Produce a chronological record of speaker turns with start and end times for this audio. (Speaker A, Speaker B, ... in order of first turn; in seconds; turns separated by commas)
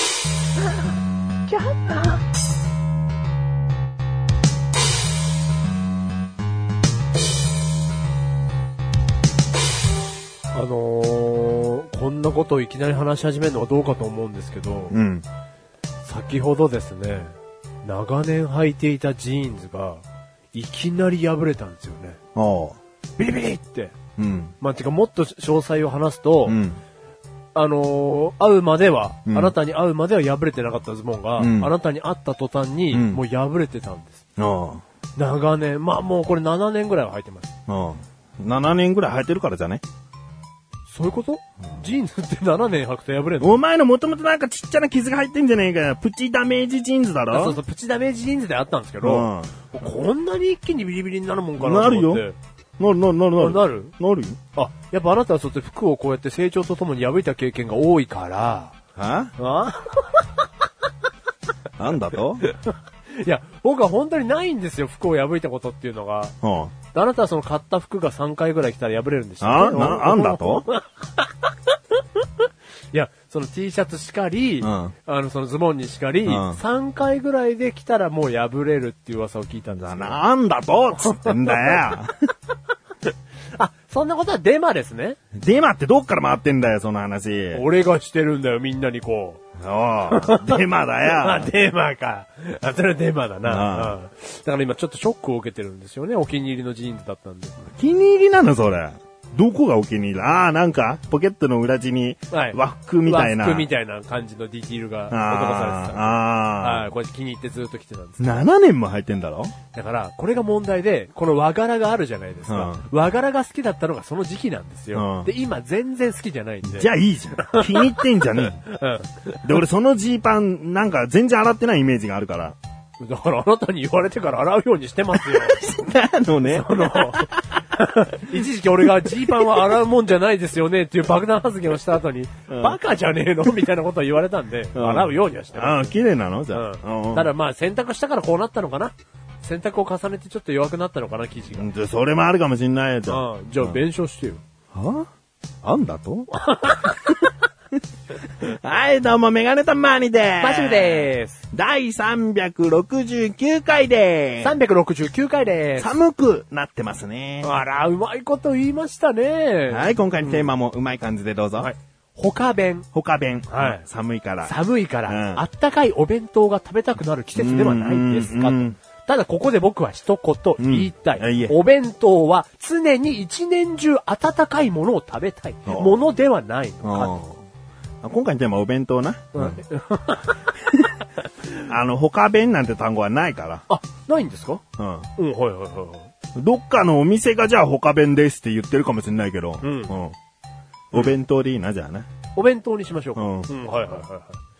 Speaker A: 1.5-2.2, Speaker A: 10.5-15.0, Speaker B: 14.9-15.3, Speaker A: 16.1-22.2, Speaker B: 22.4-22.8, Speaker A: 23.2-24.0, Speaker B: 24.2-24.5, Speaker A: 24.6-26.6, Speaker B: 26.5-26.8, Speaker A: 27.6-34.2, Speaker B: 29.3-29.6, Speaker B: 31.4-31.7, Speaker B: 32.9-33.2, Speaker B: 34.4-34.8, Speaker A: 35.2-37.5, Speaker B: 37.7-39.8, Speaker A: 40.9-43.6, Speaker B: 43.4-47.6, Speaker A: 47.3-52.4, Speaker B: 49.0-49.5, Speaker B: 51.6-52.2, Speaker B: 52.8-54.4, Speaker A: 53.4-53.9, Speaker A: 54.5-58.8, Speaker B: 59.0-59.3, Speaker A: 59.4-60.3, Speaker B: 61.8-62.5, Speaker A: 63.1-66.3, Speaker B: 66.4-66.7, Speaker A: 66.9-71.5, Speaker B: 69.4-70.7, Speaker A: 72.9-80.2, Speaker B: 74.6-74.9, Speaker B: 76.2-76.6, Speaker B: 79.8-82.2, Speaker A: 81.2-81.8, Speaker A: 83.5-85.2, Speaker B: 85.3-87.6, Speaker A: 87.5-89.4, Speaker B: 89.6-91.5, Speaker A: 90.1-97.6, Speaker B: 93.4-94.0, Speaker B: 97.7-103.7, Speaker A: 102.3-108.5, Speaker B: 105.1-106.9, Speaker B: 108.2-109.5, Speaker A: 109.7-119.4, Speaker B: 112.5-112.9, Speaker B: 114.9-115.3, Speaker B: 116.7-118.6, Speaker B: 119.4-122.6, Speaker A: 123.0-125.6, Speaker B: 125.1-127.5, Speaker A: 126.5-136.0, Speaker B: 128.8-129.7, Speaker B: 132.5-132.8, Speaker B: 134.8-137.3, Speaker A: 136.5-141.7, Speaker B: 141.5-143.8, Speaker A: 143.1-144.4, Speaker B: 144.7-145.1, Speaker B: 145.6-146.3, Speaker A: 146.3-147.0, Speaker B: 146.8-147.2, Speaker B: 148.4-154.6, Speaker A: 150.4-151.4, Speaker A: 154.4-156.0, Speaker B: 155.8-157.5, Speaker A: 157.4-160.5, Speaker B: 159.7-161.7, Speaker A: 161.6-162.9, Speaker B: 162.9-164.6, Speaker A: 163.5-163.8, Speaker A: 164.4-177.2, Speaker B: 165.1-165.4, Speaker B: 167.4-168.8, Speaker B: 170.6-171.6, Speaker B: 175.7-176.0, Speaker B: 176.8-177.4, Speaker B: 178.0-179.6, Speaker A: 179.3-180.4, Speaker B: 181.6-183.7, Speaker A: 183.7-184.6, Speaker B: 184.8-185.1, Speaker A: 185.2-186.1, Speaker B: 186.4-190.2, Speaker A: 189.6-189.9, Speaker B: 190.9-192.1, Speaker A: 192.4-194.4, Speaker B: 193.2-193.5